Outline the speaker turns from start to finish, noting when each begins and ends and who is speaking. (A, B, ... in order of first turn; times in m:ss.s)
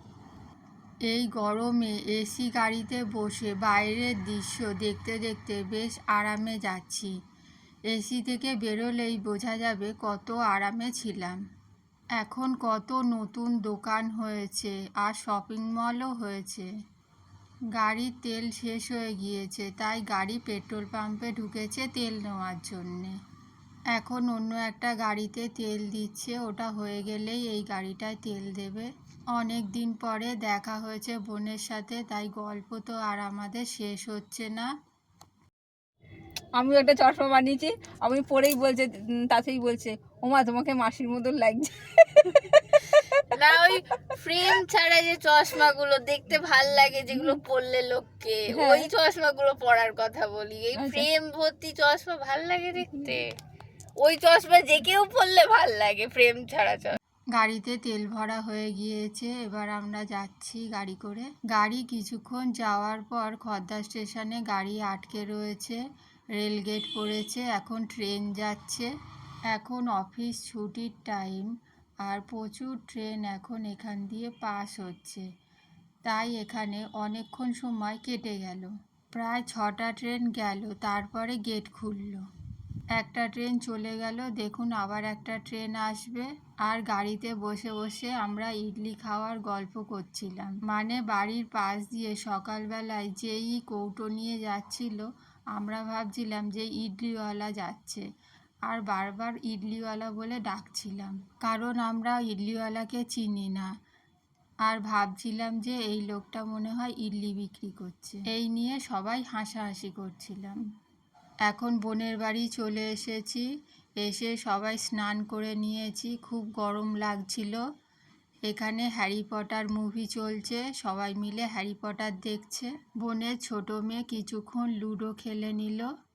0:01.1-0:07.1 A
0:07.9-0:11.4 A
0:12.2-0:16.7 A
0:17.8-0:23.2 A
0:23.9-0:34.7 A
0:36.6-0:43.3 B
0:43.3-0:53.2 C
0:48.5-0:48.9 B
0:50.7-0:51.1 B
0:54.0-0:57.0 C
0:57.3-1:05.8 A
1:06.4-1:08.9 A
1:09.5-1:11.5 A
1:12.0-1:15.2 A
1:16.0-1:22.2 A
1:22.9-1:38.0 A
1:38.7-1:43.7 A
1:44.6-1:50.6 A
1:51.4-1:53.4 A
1:54.0-1:57.6 A
1:58.5-2:05.9 A